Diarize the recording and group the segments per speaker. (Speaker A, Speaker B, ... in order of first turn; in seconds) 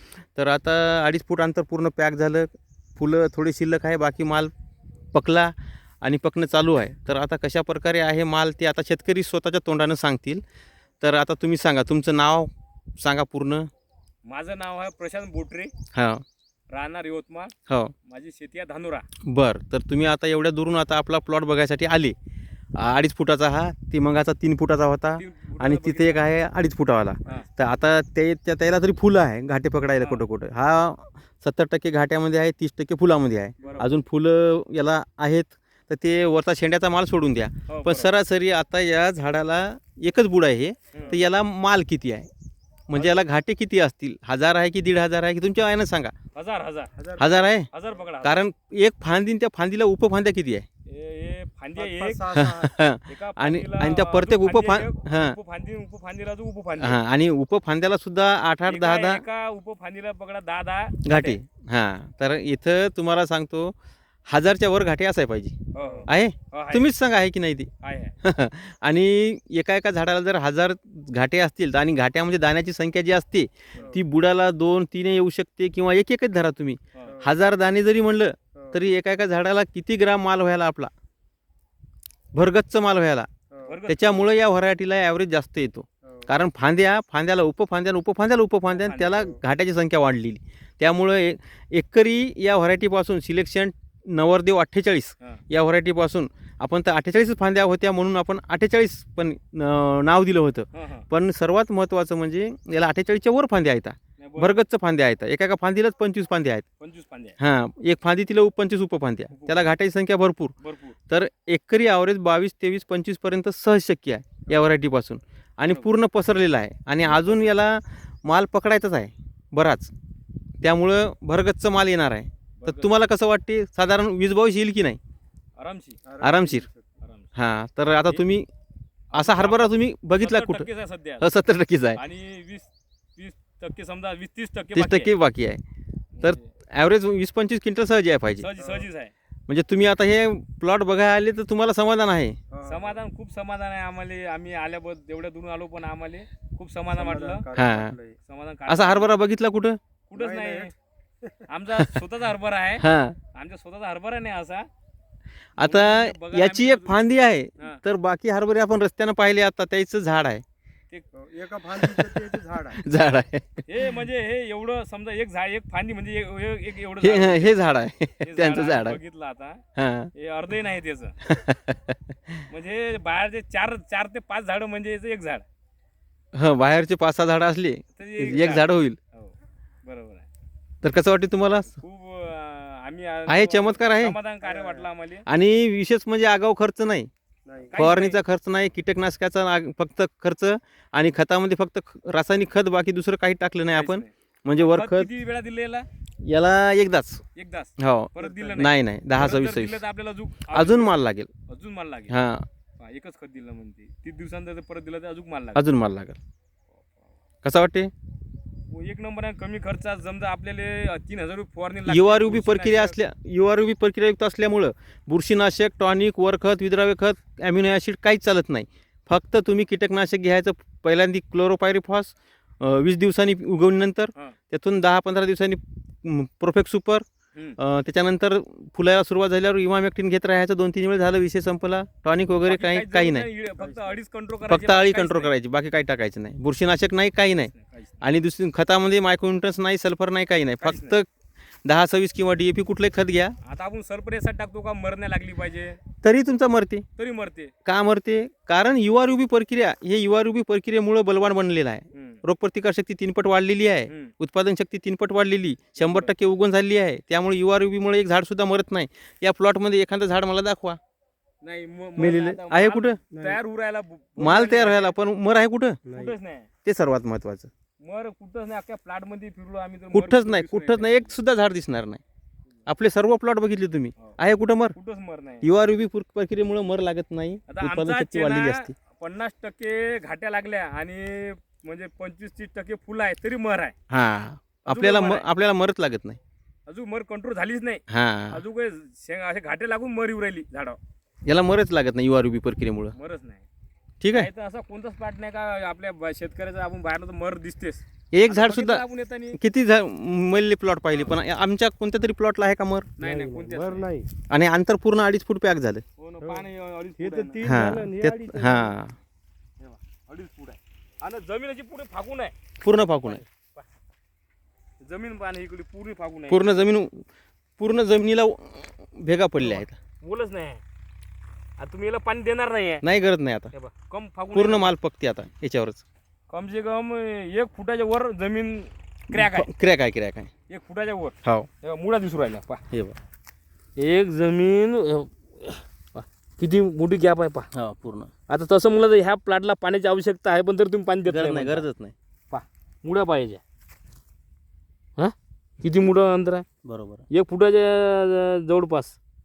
Speaker A: 0.3-4.5, 5.1-10.4, 11.0-13.7, 15.9-16.2, 17.7-17.9, 19.2-22.1, 22.7-42.3, 42.9-46.1, 47.2-47.7, 48.2-50.6, 52.3-55.4, 56.8-59.2, 61.0-63.7, 64.3-67.7, 68.2-80.9, 82.3-83.3, 83.9-106.6, 107.4-110.5, 111.1-119.9, 120.6-125.0, 126.2-126.7, 127.3-128.5, 129.1-130.7, 131.2-132.0, 134.7-135.6, 136.2-138.5, 139.5-142.4, 147.6-147.9, 148.7-149.8, 152.8-153.2, 155.6-160.4, 161.9-163.6, 167.0-169.0, 169.8-170.1, 171.2-172.4, 176.3-179.0, 180.8-181.7, 183.3-184.2, 185.3-187.1, 187.8-195.1, 196.2-197.2, 197.8-199.8, 200.5-201.3, 202.1-202.4, 205.5-206.2, 207.4-207.9, 211.8-227.0, 227.6-233.3, 234.5-241.1, 241.6-243.3, 246.0-246.8, 247.7-260.8, 261.9-263.0, 264.2-265.8, 266.6-267.5, 269.9-272.0, 272.7-274.7, 275.4-278.7, 283.9-286.2, 287.9-288.4, 291.2-292.9, 294.0-294.3, 298.1-298.8, 299.3-302.9, 304.3-305.8, 307.4-309.0, 312.6-313.2, 316.3-317.1, 317.6-319.7, 322.8-323.5, 324.3-325.8, 329.1-330.3, 332.7-333.0, 337.5-338.1, 341.1-341.9, 346.6-347.0
Speaker B: 14.2-15.7, 16.7-17.5, 18.1-19.1, 25.2-26.3, 30.0-30.2, 33.6-33.9, 37.7-38.1, 40.9-41.2, 42.9-43.2, 46.3-48.4, 50.9-52.3, 53.0-57.0, 58.6-61.4, 65.7-66.9, 67.8-68.1, 76.9-77.2, 83.6-84.3, 88.7-89.2, 100.7-101.0, 104.2-104.6, 106.8-107.4, 109.3-109.7, 110.6-111.0, 117.0-117.5, 122.6-123.0, 125.6-126.0, 127.0-127.3, 129.1-131.2, 131.9-135.1, 136.1-136.5, 138.4-139.1, 142.6-147.5, 148.2-149.1, 150.1-150.7, 151.5-152.8, 153.3-154.7, 155.6-157.1, 163.7-167.6, 168.2-169.6, 170.1-171.2, 172.5-175.4, 177.9-180.3, 181.4-185.2, 187.7-188.2, 193.7-195.9, 197.3-202.1, 202.8-205.6, 208.7-213.0, 232.4-235.3, 237.4-237.9, 240.6-240.9, 243.4-245.8, 247.0-247.5, 251.9-252.2, 253.9-254.1, 255.8-256.1, 261.4-265.0, 265.9-266.5, 267.8-271.1, 274.7-275.4, 277.5-283.7, 284.7-285.2, 286.7-290.8, 292.9-293.4, 294.1-299.4, 303.0-303.9, 306.0-307.6, 309.6-312.3, 313.0-313.6, 314.8-316.5, 319.4-320.6, 321.6-322.8, 323.5-324.7, 326.3-329.5, 330.5-332.6, 333.8-337.5, 338.3-341.6, 342.3-343.4, 345.0-346.4, 347.1-349.0
Speaker C: 51.8-52.8, 65.8-66.0, 83.5-83.8, 126.0-126.9, 138.6-138.9, 142.5-143.0, 146.9-148.2, 150.2-150.7, 161.1-162.8, 184.4-184.8, 187.4-187.8, 233.6-233.9, 263.1-263.4, 265.8-266.1, 303.0-304.1, 306.2-306.4, 307.0-308.8